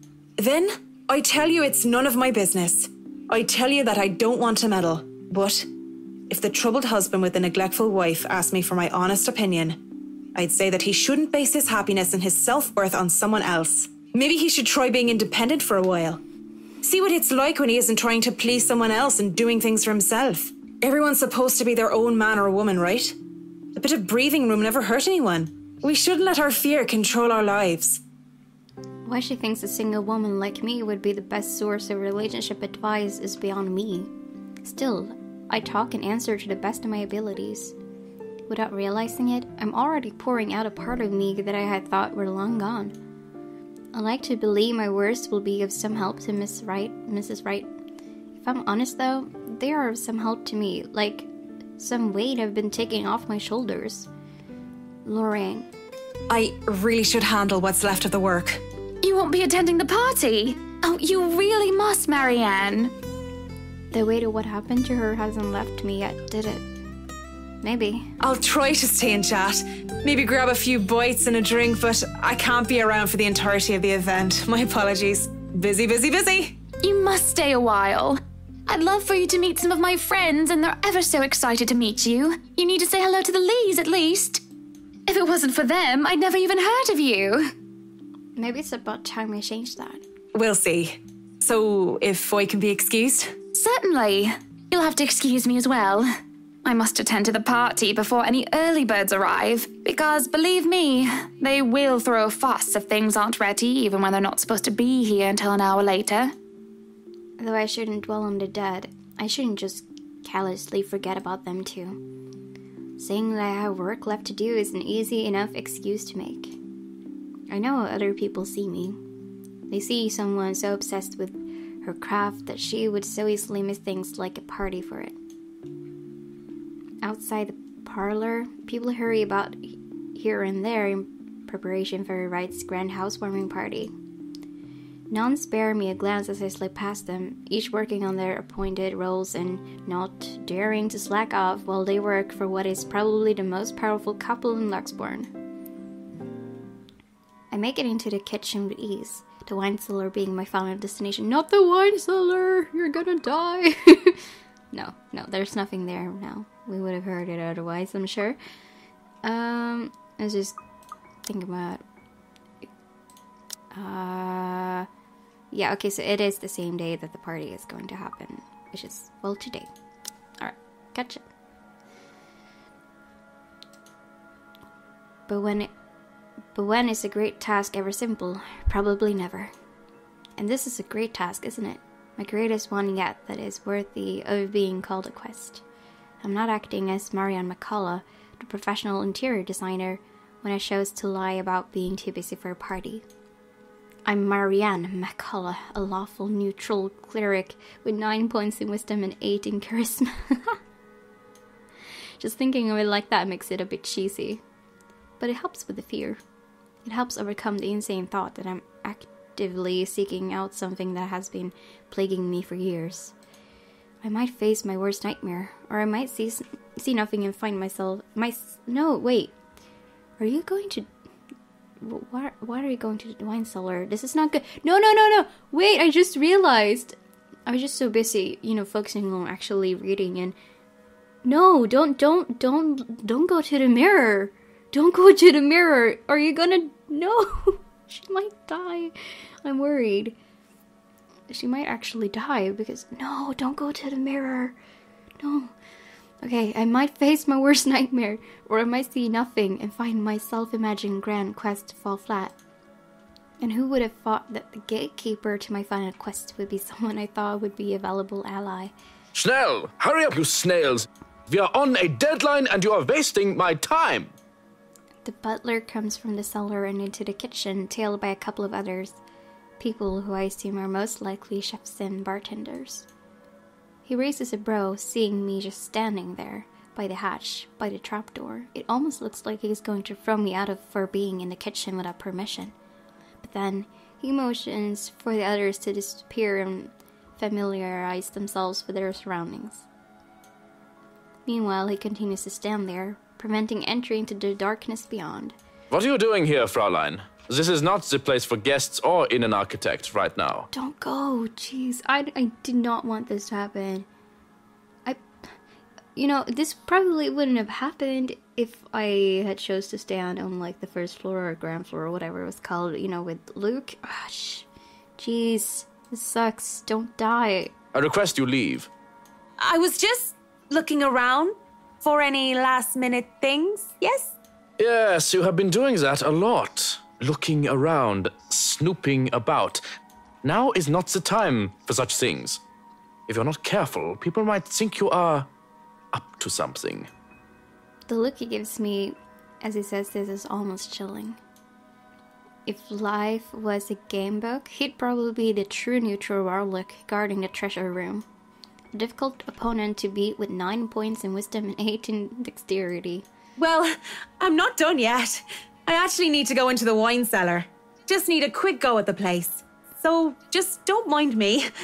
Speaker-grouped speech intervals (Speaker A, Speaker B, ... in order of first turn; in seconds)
Speaker A: 0.4-5.7, 6.3-9.8, 10.3-16.2, 16.8-23.2, 23.7-28.0, 56.3-58.6, 68.2-76.6, 90.3-93.3, 319.4-324.1, 353.4-361.5
Speaker B: 29.0-34.1, 34.6-37.7, 38.5-42.9, 43.9-47.7, 48.4-54.1, 55.0-55.7, 63.9-66.6, 67.6-68.1, 88.3-90.0, 107.4-112.0, 113.0-116.6, 117.5-119.0, 119.7-125.2, 127.0-133.9, 135.1-145.3, 147.5-158.4, 159.2-160.6, 161.2-161.8, 163.7-164.9, 165.5-169.7, 170.4-171.2, 175.3-175.7, 176.5-179.5, 180.4-185.6, 186.2-193.0, 194.1-200.6, 202.2-204.4, 205.2-206.2, 206.8-213.1, 214.0-219.3, 220.2-220.9, 221.8-230.3, 231.2-240.2, 241.3-244.6, 245.2-245.5, 246.2-252.3, 253.4-258.7, 265.0-269.0, 269.6-272.9, 273.8-282.5, 283.2-289.6, 291.2-295.3, 300.5-303.9, 305.9-314.5, 315.0-317.5, 337.9-341.2, 342.4-348.0, 348.7-353.0
Speaker C: 59.0-62.9, 76.8-84.4, 85.1-87.5, 93.5-96.1, 96.6-106.3
Speaker D: 259.1-264.1, 295.7-300.5, 317.7-318.7, 324.6-329.6, 330.2-332.4, 333.1-335.3, 335.9-336.9